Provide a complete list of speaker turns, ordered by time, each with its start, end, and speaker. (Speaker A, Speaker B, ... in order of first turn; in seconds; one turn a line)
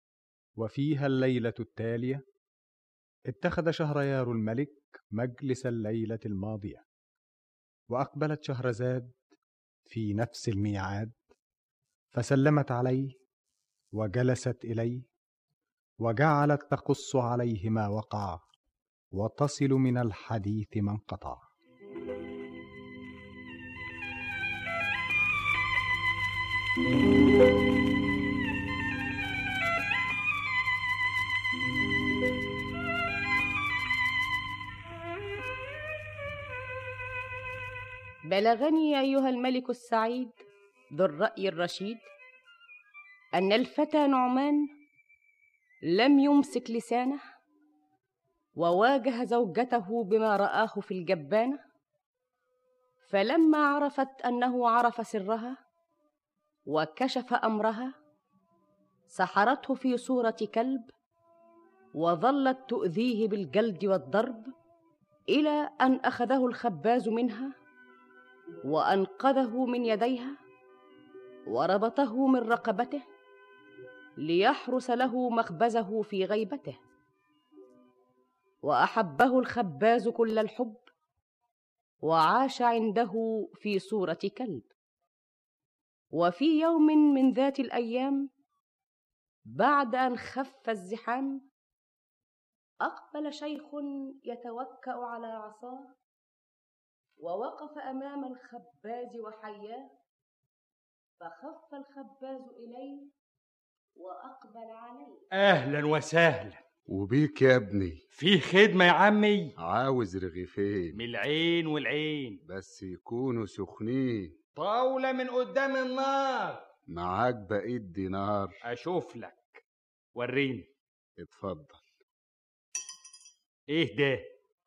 Speaker A: 0.6-2.2
Speaker A: 3.3-6.8
Speaker A: 7.9-9.2
Speaker A: 9.9-11.2
Speaker A: 12.1-13.2
Speaker A: 13.9-15.1
Speaker A: 16.0-18.4
Speaker A: 19.1-21.5
Speaker B: 38.3-40.3
Speaker B: 40.9-42.1
Speaker B: 43.4-44.6
Speaker B: 45.9-47.2
Speaker B: 48.6-51.6
Speaker B: 53.0-55.6
Speaker B: 56.7-57.9
Speaker B: 59.1-60.9
Speaker B: 62.0-64.5
Speaker B: 65.3-67.5
Speaker B: 68.7-70.4
Speaker B: 71.5-73.0
Speaker B: 74.2-76.8
Speaker B: 78.6-80.8
Speaker B: 82.0-84.7
Speaker B: 86.1-88.3
Speaker B: 89.5-91.4
Speaker B: 92.8-95.9
Speaker B: 97.2-99.9
Speaker B: 101.2-103.1
Speaker B: 104.0-105.2
Speaker C: 105.3-106.6
Speaker D: 106.9-108.0
Speaker C: 108.2-109.5
Speaker D: 109.6-111.0
Speaker C: 111.0-112.4
Speaker D: 112.5-114.3
Speaker C: 114.6-116.6
Speaker D: 116.9-118.5
Speaker C: 118.7-119.6
Speaker C: 120.2-120.7
Speaker D: 121.2-121.8
Speaker C: 123.7-124.2